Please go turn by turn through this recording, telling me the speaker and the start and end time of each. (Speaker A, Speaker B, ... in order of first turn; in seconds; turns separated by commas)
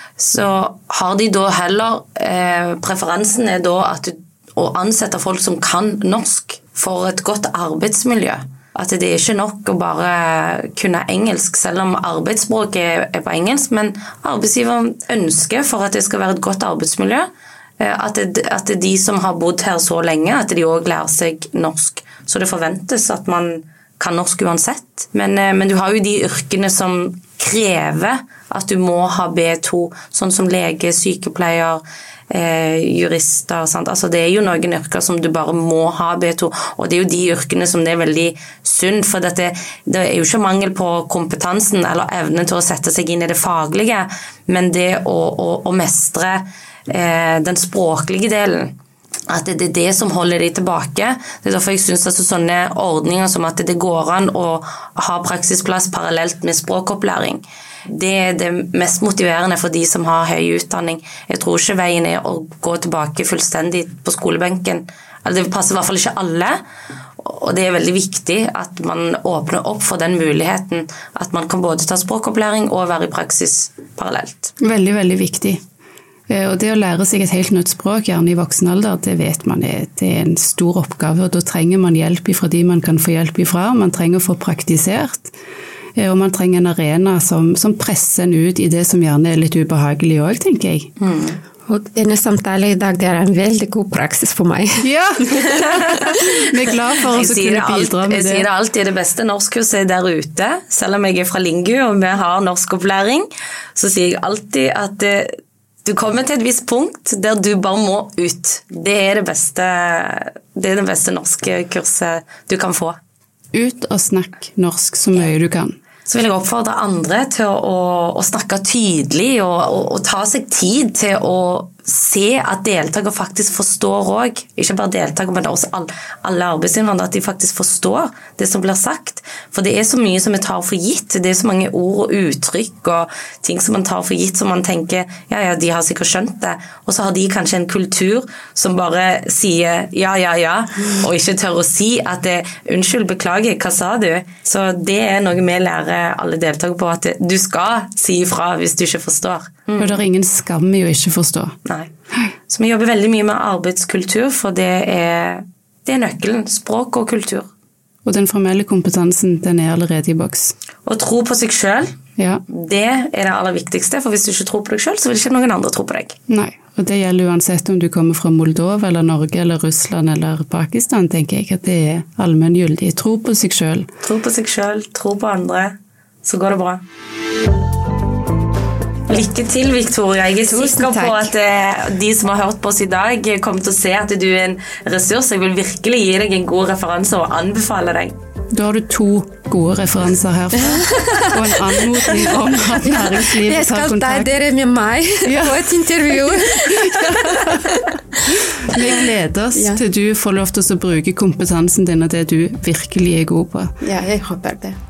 Speaker A: 0.2-17.3, Speaker A: 17.8-48.7, Speaker A: 49.3-66.6, Speaker A: 67.2-74.5, Speaker B: 74.6-75.6, Speaker B: 76.3-85.3, Speaker B: 86.0-90.9, Speaker A: 91.0-91.4, Speaker C: 91.7-96.2, Speaker B: 94.8-98.5, Speaker A: 97.1-113.0, Speaker B: 113.5-115.8, Speaker A: 116.0-150.0, Speaker B: 149.8-151.6, Speaker A: 152.5-157.5, Speaker B: 158.0-160.5, Speaker A: 160.8-161.9, Speaker B: 162.2-162.4, Speaker A: 162.5-166.2, Speaker B: 166.3-173.9, Speaker A: 174.0-176.8, Speaker A: 179.1-188.2, Speaker C: 180.4-181.3, Speaker B: 188.5-194.3, Speaker C: 190.6-198.2, Speaker B: 195.2-203.7, Speaker C: 198.7-199.0, Speaker C: 199.5-199.8, Speaker C: 203.8-204.8